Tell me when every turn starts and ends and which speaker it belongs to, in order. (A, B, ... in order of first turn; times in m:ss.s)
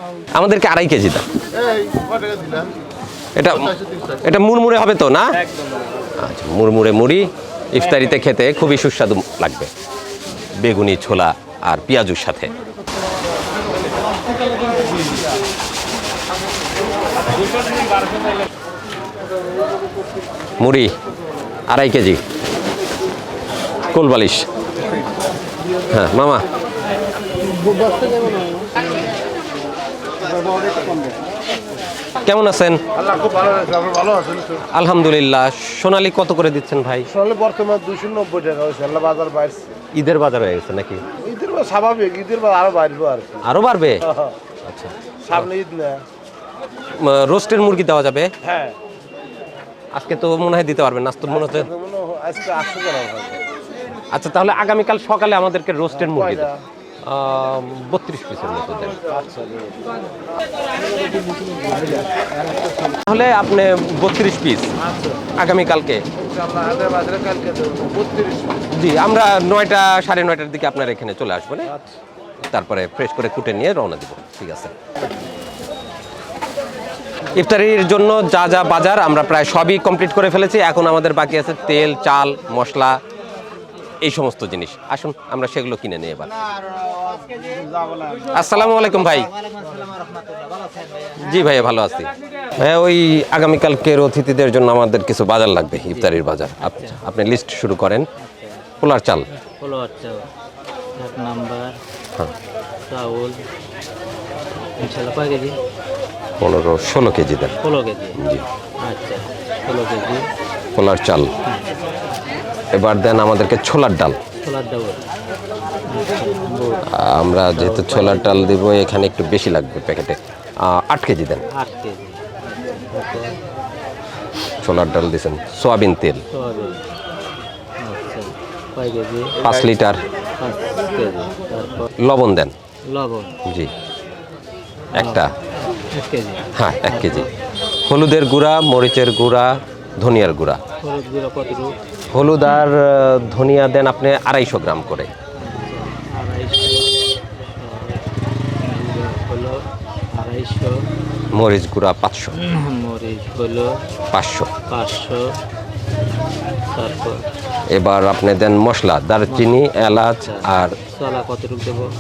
0:00.3-0:01.3 A
0:01.5-0:02.7 B
0:03.4-0:05.4 A
0:03.8-0:04.1 B
0:06.2-0:09.7 A
0:10.6-0:12.5 A
0:20.6-0:20.9 A
0:21.7-0:22.2 A
0:23.9-0:24.5 A
0:25.9-0:26.5 A
0:27.6-0:28.7 B
0:30.2-0:31.2 B
0:32.2-0:32.8 A
0:33.0-0:34.6 B
0:34.7-0:37.1 A
0:37.1-0:39.7 B
0:40.0-0:41.0 A
0:41.2-0:43.5 B
0:43.4-0:44.0 A
0:44.7-0:45.4 A
0:45.2-0:46.0 B
0:47.0-0:48.3 A
0:49.9-0:51.7 A
0:51.3-0:53.4 B
0:54.1-0:56.5 A
0:55.9-0:56.6 B
0:57.0-0:59.0 A
0:59.0-0:59.8 B
1:03.0-1:04.7 A
1:05.4-1:06.0 A
1:06.4-1:08.6 B
1:08.7-1:11.7 A
1:12.4-1:14.7 A
1:17.3-1:23.0 A
1:24.0-1:26.5 A
1:26.8-1:31.6 C
1:28.3-1:29.3 A
1:31.2-1:38.1 A
1:35.8-1:37.0 C
1:38.2-1:38.7 C
1:38.8-1:39.3 A
1:39.6-1:40.3 C
1:41.0-1:41.8 C
1:42.8-1:43.4 C
1:44.8-1:45.6 C
1:46.4-1:47.6 A
1:47.6-1:48.2 C
1:48.2-1:48.4 A
1:48.8-1:50.3 C
1:50.8-1:51.3 A
1:52.7-1:54.2 A
1:54.4-1:55.0 C
1:55.9-1:56.8 C
1:56.9-2:01.4 A
1:57.5-1:58.5 C
2:01.5-2:03.4 C
2:04.6-2:06.2 A
2:06.3-2:06.8 C
2:07.8-2:09.4 C
2:09.4-2:10.0 A
2:10.4-2:11.9 C
2:12.0-2:12.5 A
2:12.9-2:13.4 C
2:14.9-2:15.3 C
2:15.0-2:15.3 A
2:15.9-2:17.3 C
2:16.6-2:17.3 A
2:17.9-2:20.6 A
2:20.8-2:21.8 C
2:22.1-2:25.1 A
2:25.4-2:28.0 C
2:28.6-2:30.8 C
2:31.3-2:32.4 A
2:32.3-2:33.8 C
2:34.1-2:34.5 A
2:34.7-2:35.3 C
2:36.7-2:37.2 C
2:37.7-2:40.8 A
2:39.3-2:41.9 C